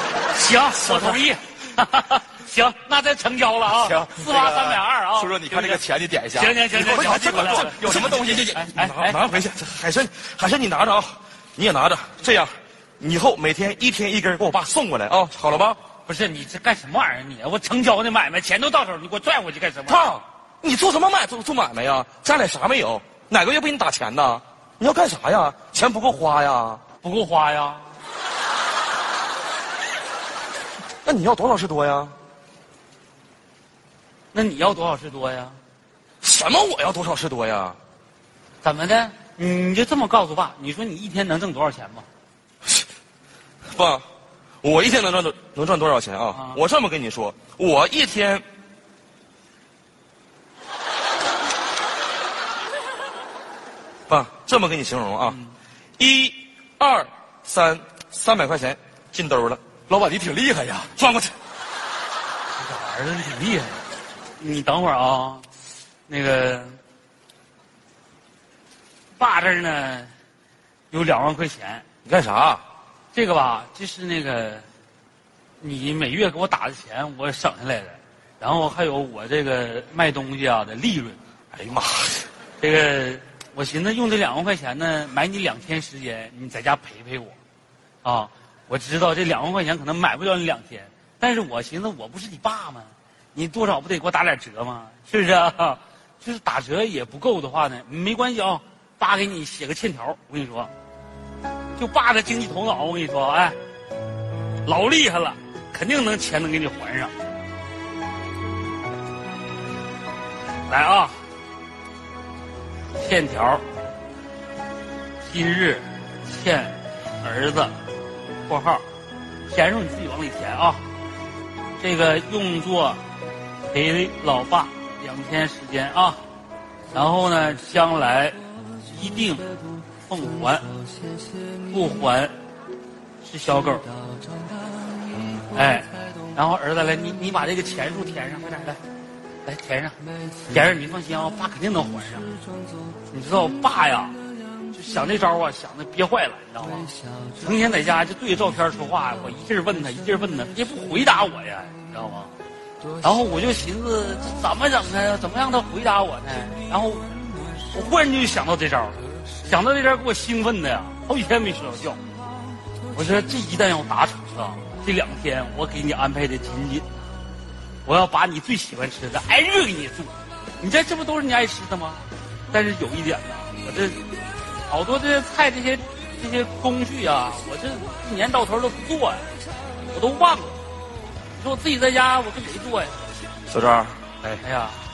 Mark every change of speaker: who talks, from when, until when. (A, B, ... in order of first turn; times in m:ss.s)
0:00.3-0:09.2 A
0:00.8-0:01.2 B
0:03.7-0:08.7 C
0:06.7-0:15.8 B
0:16.1-0:20.2 A
0:19.9-0:26.8 B
0:27.0-0:27.9 A
0:31.0-0:32.1 B
0:34.3-0:35.6 A
0:36.2-0:37.8 B
0:38.6-0:42.1 A
0:43.7-0:44.0 B
0:44.6-0:48.4 B
0:46.3-0:46.6 A
0:54.1-0:55.4 B
0:56.0-0:59.6 B
0:59.9-1:00.9 C
1:01.0-1:01.3 B
1:02.6-1:03.8 A
1:04.4-1:05.5 A
1:06.1-1:06.8 A
1:09.2-1:10.1 A
1:10.9-1:11.8 A
1:12.0-1:12.6 B
1:13.1-1:14.6 A
1:15.6-1:21.2 A
1:21.5-1:22.3 B
1:22.6-1:27.4 A
1:28.0-1:40.7 A
1:41.8-1:43.6 A
1:44.6-1:47.1 A
1:50.7-1:51.2 A
1:53.0-1:53.6 A
1:55.2-1:57.8 A
1:58.4-1:58.8 A
1:59.5-2:00.8 A
2:01.8-2:03.0 A
2:03.7-2:06.2 A
2:06.9-2:10.7 A
2:11.7-2:12.4 A
2:13.2-2:13.9 A
2:15.5-2:18.8 A
2:19.4-2:20.0 A
2:20.5-2:22.3 A
2:23.1-2:24.2 A
2:24.7-2:32.3 A
2:33.0-2:37.1 A
2:37.7-2:42.0 A
2:42.9-2:46.9 A
2:47.8-2:54.1 A
2:54.7-2:59.3 A
2:59.8-3:00.6 A
3:01.4-3:03.0 A
3:03.5-3:04.4 B
3:04.4-3:04.8 A